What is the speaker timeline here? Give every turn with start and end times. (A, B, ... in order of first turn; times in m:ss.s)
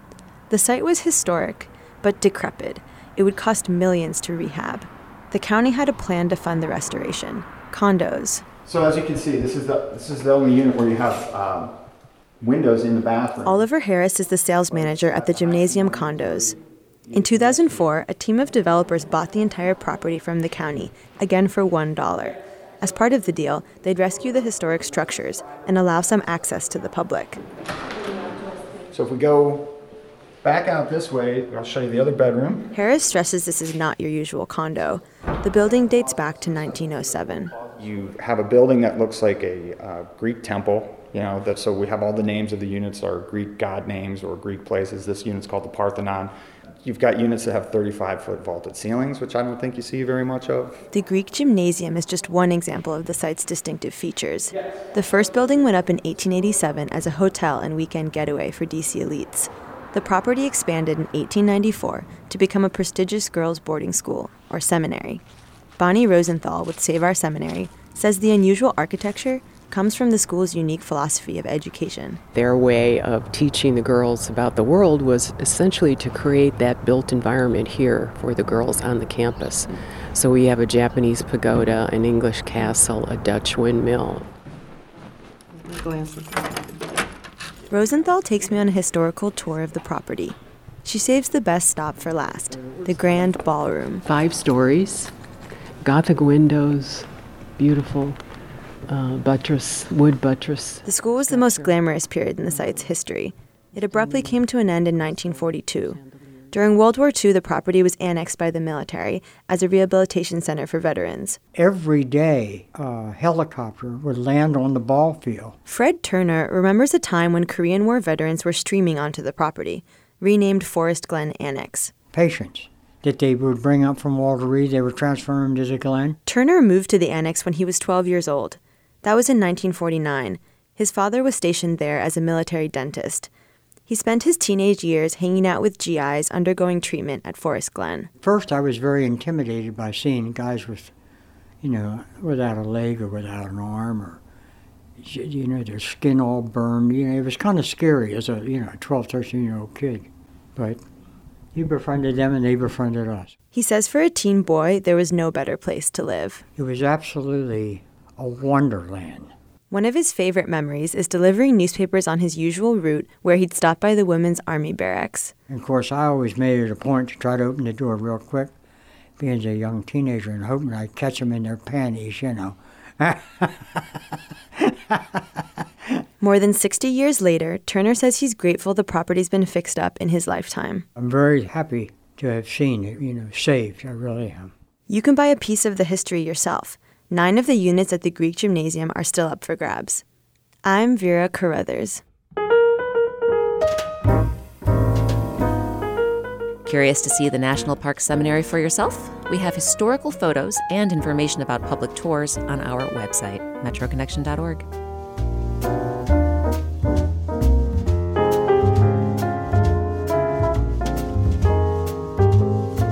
0:00.5-0:08.4 A
0:08.6-0:11.7 B
0:12.4-0:13.6 B
0:13.4-0:16.6 A
0:17.1-0:27.4 A
0:28.9-0:29.8 B
0:30.4-0:32.7 B
0:32.7-0:37.6 A
0:37.7-0:50.8 B
0:50.9-1:05.2 A
1:05.8-1:12.2 A
1:12.3-1:24.3 C
1:27.7-1:34.0 A
1:34.0-1:35.1 C
1:35.8-1:38.2 C
1:38.9-1:41.7 C
1:40.8-1:46.0 A
1:43.9-1:44.4 C
1:46.5-1:51.4 A
1:51.5-1:55.6 D
1:55.7-2:01.9 A
2:02.1-2:06.2 D
2:06.2-2:13.3 A
2:13.9-2:18.1 A
2:18.2-2:20.9 D
2:21.6-2:24.2 D
2:25.0-2:30.8 D
2:31.5-2:33.3 D
2:33.5-2:36.4 A
2:36.6-2:39.3 D
2:39.7-2:45.3 A
2:45.5-2:48.5 D
2:49.2-2:53.8 D
2:54.6-2:55.0 D
2:56.2-3:00.8 A
3:01.0-3:04.5 D
3:04.9-3:10.0 A
3:10.6-3:12.0 A
3:16.6-3:24.6 E